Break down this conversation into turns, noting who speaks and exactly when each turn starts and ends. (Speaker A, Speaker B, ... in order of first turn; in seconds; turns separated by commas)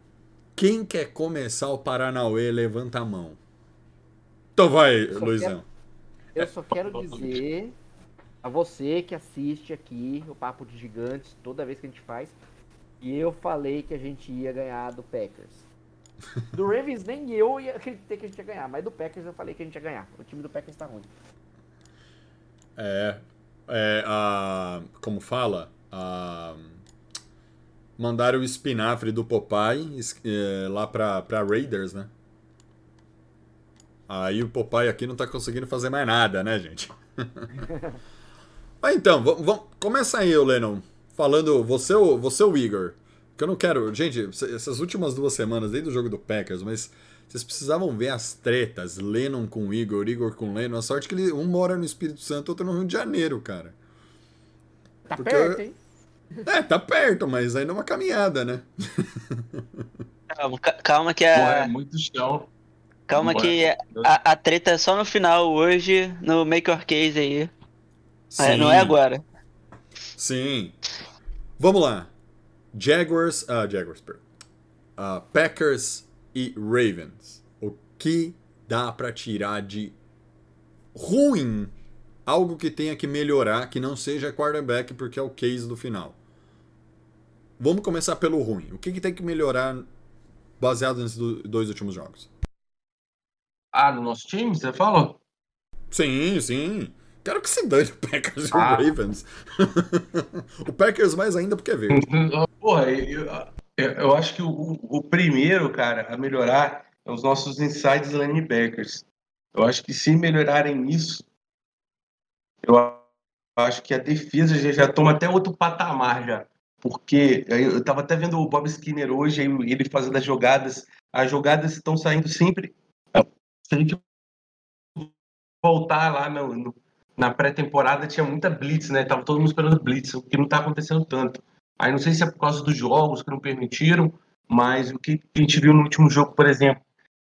Speaker A: 0.6-3.4, Speaker A: 4.6-5.7, Speaker B: 5.1-5.6, Speaker B: 6.3-7.8, Speaker B: 8.4-12.4, Speaker B: 13.0-15.7, Speaker B: 16.5-21.1, Speaker A: 22.8-26.8, Speaker A: 28.0-32.1, Speaker A: 34.1-37.6, Speaker A: 38.8-53.8, Speaker B: 55.1-55.8, Speaker A: 55.2-55.6, Speaker A: 56.5-59.9, Speaker C: 60.3-61.7, Speaker D: 61.3-62.5, Speaker C: 63.1-67.5, Speaker D: 63.1-64.1, Speaker A: 68.3-69.0, Speaker C: 68.4-69.2, Speaker A: 70.2-70.8, Speaker A: 71.6-72.1, Speaker A: 72.7-74.2, Speaker A: 75.0-80.0, Speaker A: 80.9-81.7, Speaker A: 82.2-86.2, Speaker A: 87.6-89.9, Speaker A: 90.6-92.3, Speaker D: 93.7-95.2, Speaker A: 95.9-102.1, Speaker D: 98.5-98.9, Speaker D: 101.9-109.0, Speaker D: 109.5-111.3, Speaker D: 112.6-113.0, Speaker D: 113.6-124.0, Speaker D: 125.6-136.8